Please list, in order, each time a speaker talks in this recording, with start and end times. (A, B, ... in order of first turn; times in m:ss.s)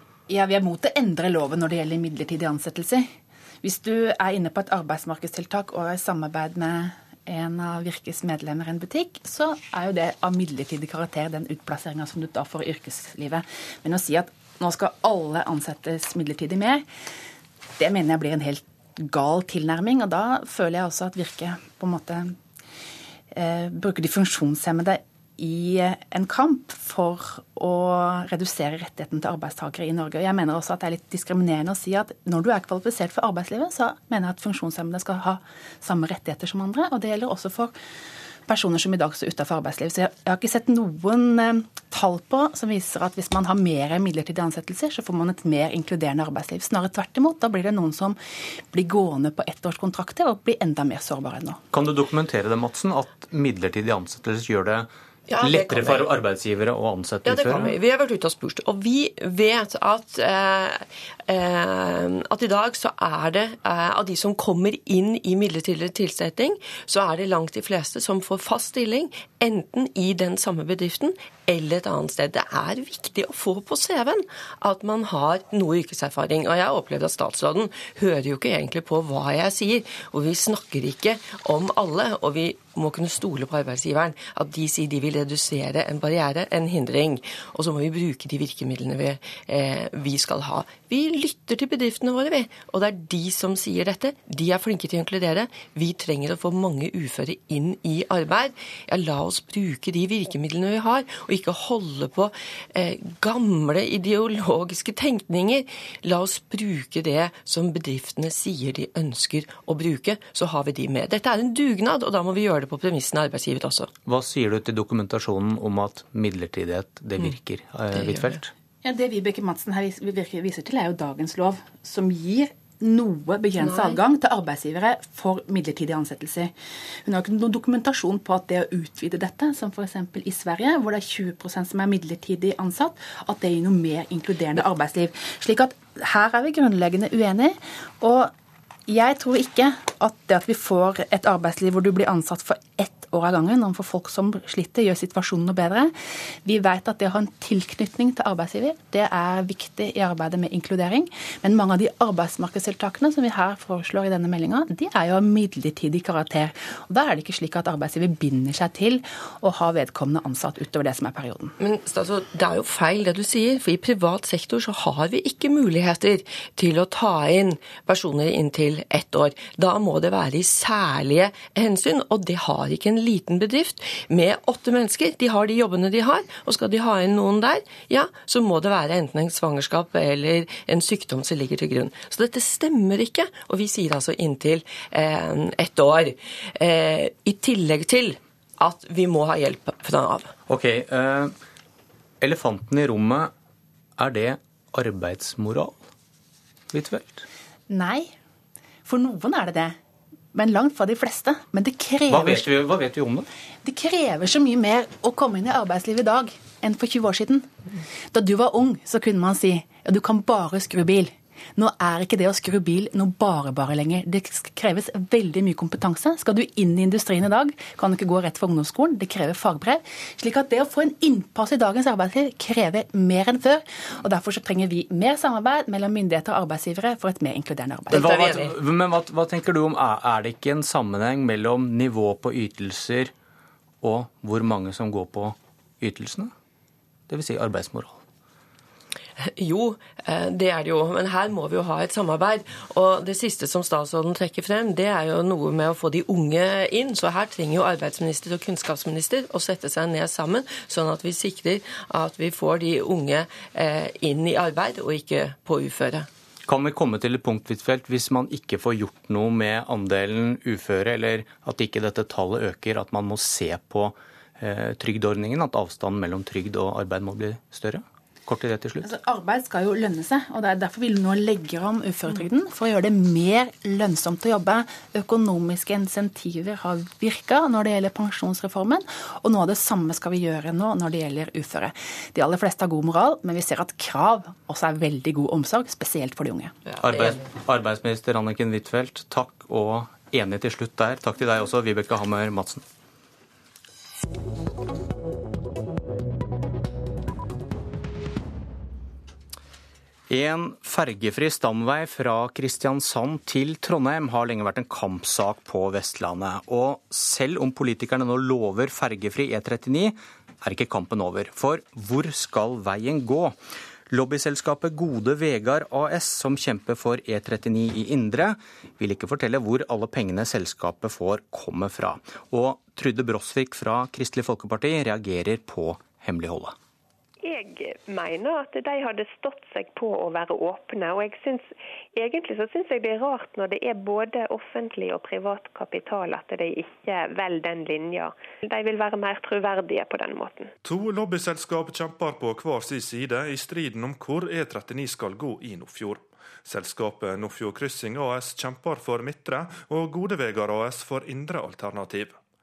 0:00.3-0:03.0 A
0:03.6-0:16.8 A
0:17.8-0:22.3 A
0:23.3-0:37.7 A
0:38.5-0:48.2 A
0:48.7-0:51.6 A
0:51.7-0:54.9 B
0:55.3-0:56.1 C
0:55.4-0:57.7 B
0:57.2-1:53.9 C
1:54.0-1:58.5 B
1:57.9-1:58.4 C
1:58.8-2:06.5 A
2:03.6-2:04.0 C
2:07.0-2:18.3 A
2:18.9-2:25.9 A
2:26.4-2:41.5 A
2:41.6-3:10.3 C
3:10.5-3:11.3 B
3:12.2-3:13.3 B
3:14.0-3:15.8 B
3:16.7-3:17.2 B
3:17.7-3:18.1 A
3:18.8-3:19.7 A
3:20.3-3:22.4 A
3:22.1-3:23.3 B
3:23.6-3:27.5 A
3:28.1-3:48.2 A
3:47.9-3:53.1 B
3:47.9-3:48.5 C
3:53.8-3:56.3 B
3:57.1-3:58.0 B
3:59.2-4:16.1 C
4:16.5-4:28.9 B
4:28.8-4:46.5 A
4:46.8-4:52.6 B
5:00.1-5:13.4 B
5:13.9-5:26.6 B
5:27.2-5:40.5 D
5:40.6-5:52.2 E